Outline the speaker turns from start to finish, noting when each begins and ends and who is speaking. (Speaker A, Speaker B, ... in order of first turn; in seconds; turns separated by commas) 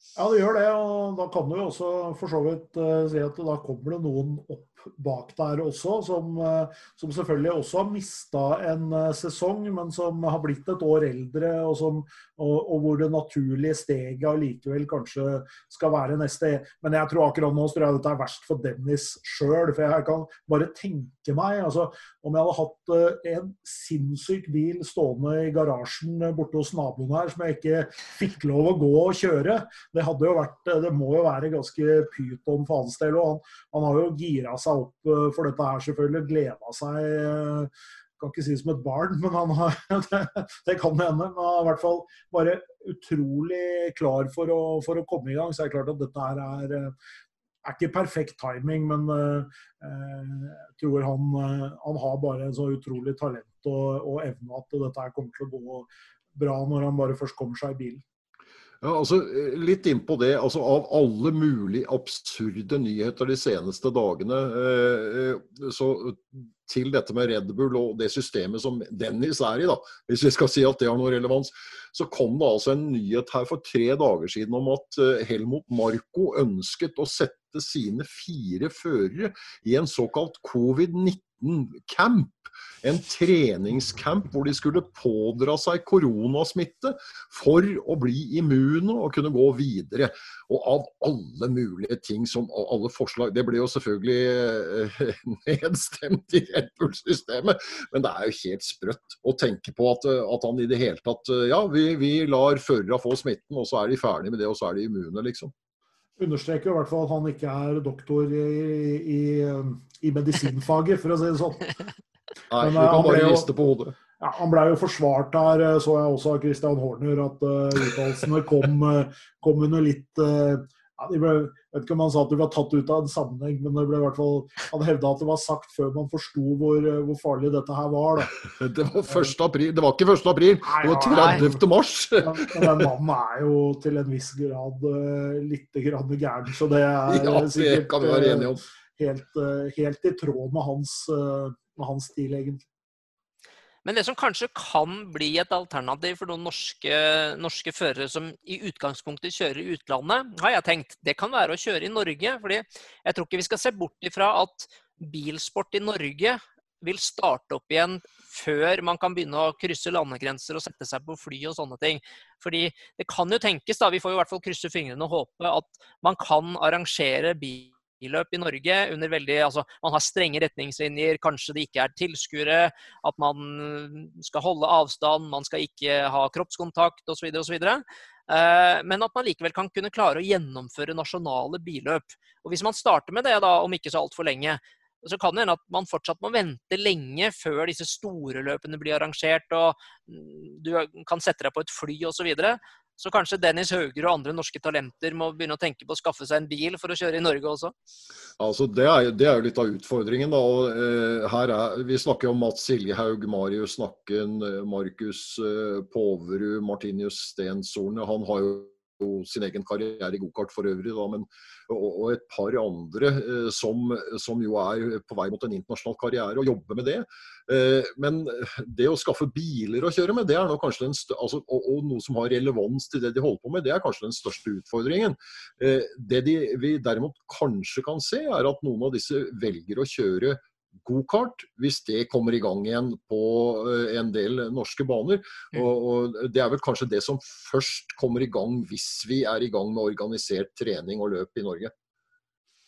Speaker A: 0.2-46.9, Speaker A: 47.6-58.0, Speaker B: 58.8-105.5, Speaker A: 106.2-111.8, Speaker B: 112.5-114.0, Speaker A: 112.6-113.5, Speaker A: 114.2-128.4, Speaker B: 128.4-132.9, Speaker A: 129.1-129.3, Speaker A: 130.7-131.6, Speaker C: 131.2-131.4, Speaker A: 132.2-142.7, Speaker B: 137.1-138.6, Speaker C: 143.8-197.7, Speaker B: 198.4-241.7